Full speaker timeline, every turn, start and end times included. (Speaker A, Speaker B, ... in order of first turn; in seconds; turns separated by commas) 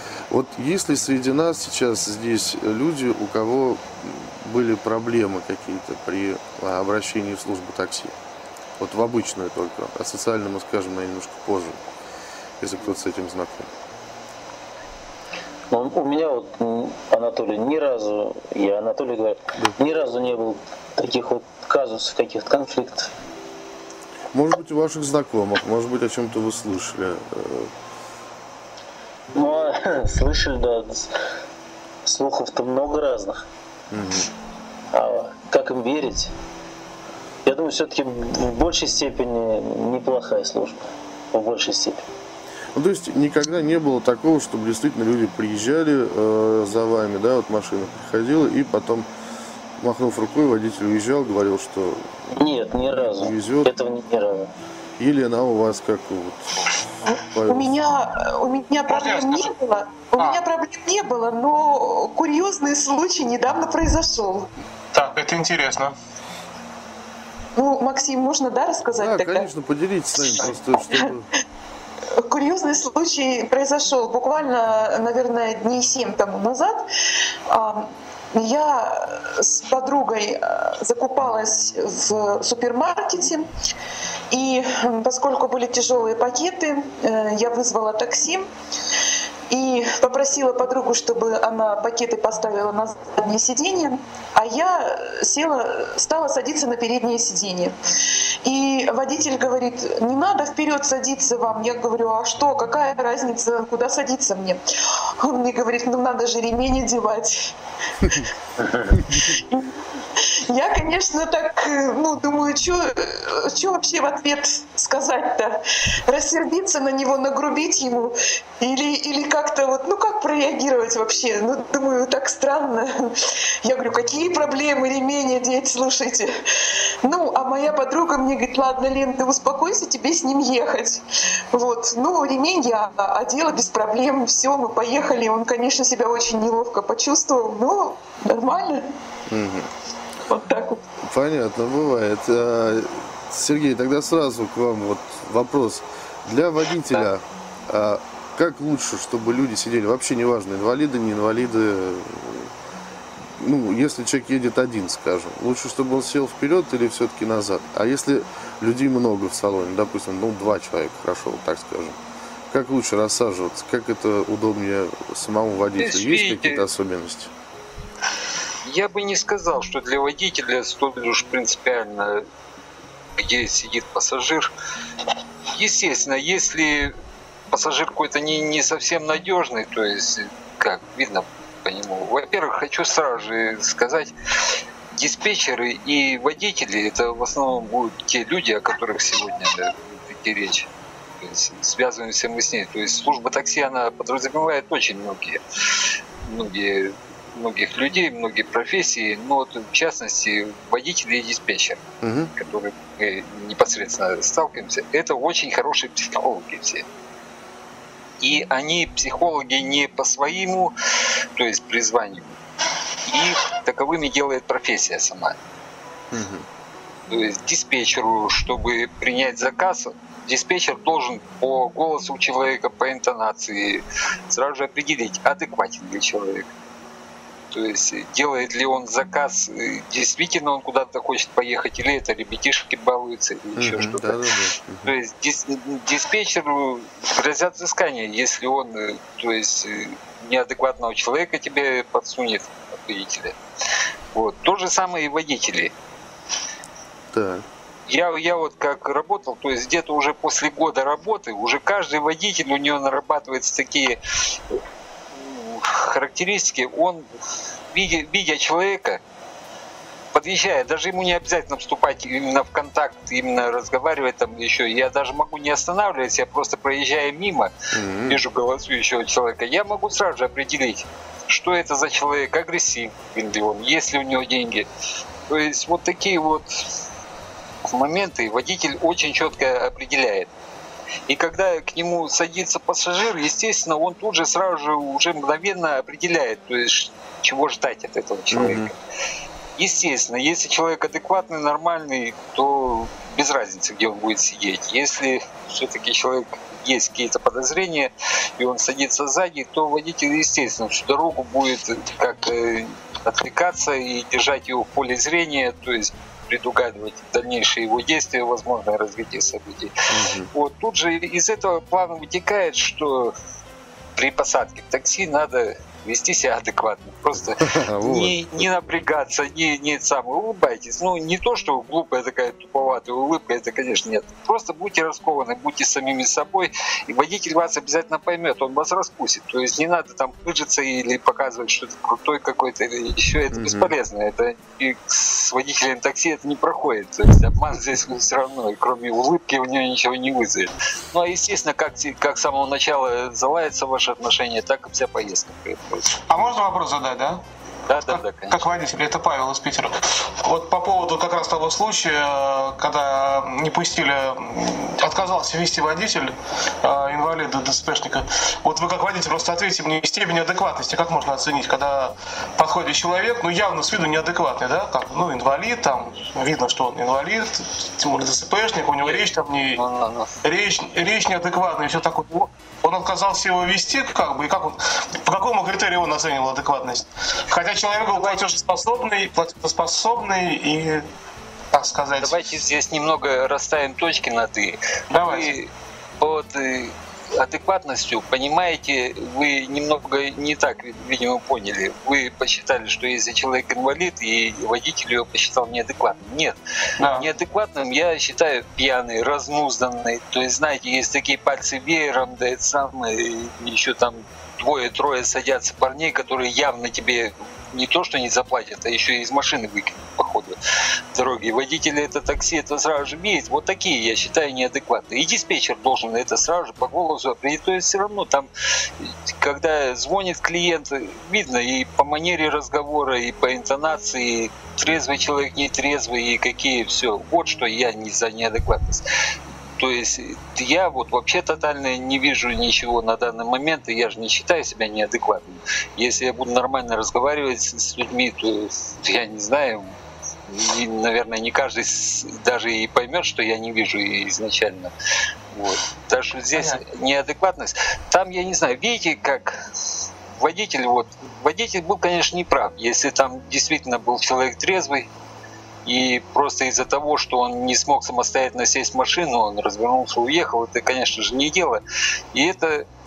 Speaker A: 0.3-8.1, Speaker A: 8.8-11.8, Speaker A: 12.6-13.7, Speaker B: 15.7-23.1, Speaker A: 24.3-27.7, Speaker B: 29.3-31.1, Speaker B: 32.0-33.5, Speaker A: 33.9-34.3, Speaker B: 34.9-36.3, Speaker B: 37.4-42.0, Speaker A: 42.7-49.1, Speaker A: 49.8-52.4, Speaker B: 52.3-54.5, Speaker A: 52.9-53.7, Speaker A: 55.0-56.5, Speaker C: 57.0-64.5, Speaker A: 57.3-57.8, Speaker D: 58.9-59.5, Speaker D: 60.2-60.4, Speaker D: 64.9-65.9, Speaker C: 67.6-69.5, Speaker A: 68.9-71.3, Speaker C: 70.2-71.1, Speaker C: 72.2-76.8, Speaker C: 77.5-83.5, Speaker C: 84.3-88.5, Speaker C: 89.5-97.8, Speaker C: 98.4-104.6, Speaker C: 105.2-107.5, Speaker B: 108.6-109.0, Speaker C: 109.1-109.7, Speaker C: 110.5-126.3, Speaker C: 127.0-138.8, Speaker A: 139.3-139.7, Speaker C: 140.3-140.8, Speaker A: 141.0-152.5, Speaker A: 153.3-162.0, Speaker A: 162.5-167.3, Speaker E: 165.8-166.7, Speaker E: 168.6-172.2, Speaker E: 173.2-174.5, Speaker E: 175.5-176.9, Speaker E: 177.5-184.1, Speaker E: 184.9-190.7, Speaker E: 191.2-195.4, Speaker E: 196.2-201.8, Speaker A: 202.0-202.3, Speaker E: 202.3-206.8, Speaker E: 208.2-210.7, Speaker E: 211.3-212.4, Speaker E: 213.1-215.4, Speaker A: 216.1-216.4, Speaker E: 217.1-226.5, Speaker E: 227.5-234.2, Speaker A: 233.6-234.9, Speaker E: 234.8-243.3, Speaker E: 244.1-245.7, Speaker A: 247.1-247.4, Speaker E: 247.9-254.0, Speaker E: 255.1-257.1, Speaker E: 257.7-259.0, Speaker E: 260.1-267.5, Speaker A: 267.7-268.2, Speaker E: 268.1-274.7, Speaker E: 275.3-276.5, Speaker E: 277.7-280.3, Speaker E: 281.1-288.7, Speaker A: 288.3-288.7, Speaker E: 289.6-309.7, Speaker A: 309.9-310.3, Speaker E: 310.3-313.1, Speaker E: 313.9-345.9, Speaker A: 317.2-318.8, Speaker A: 333.3-333.7, Speaker D: 346.1-369.6, Speaker E: 347.7-348.5, Speaker E: 369.6-370.1, Speaker D: 370.2-380.9, Speaker D: 381.5-382.3, Speaker E: 382.0-396.4, Speaker D: 384.9-385.4, Speaker D: 396.8-397.1, Speaker E: 396.9-410.4, Speaker E: 410.9-418.3, Speaker E: 418.8-428.8, Speaker E: 429.6-439.8, Speaker E: 440.3-444.7, Speaker E: 445.3-449.4, Speaker D: 446.3-446.6, Speaker E: 450.1-454.9, Speaker E: 455.6-461.6, Speaker E: 462.1-462.7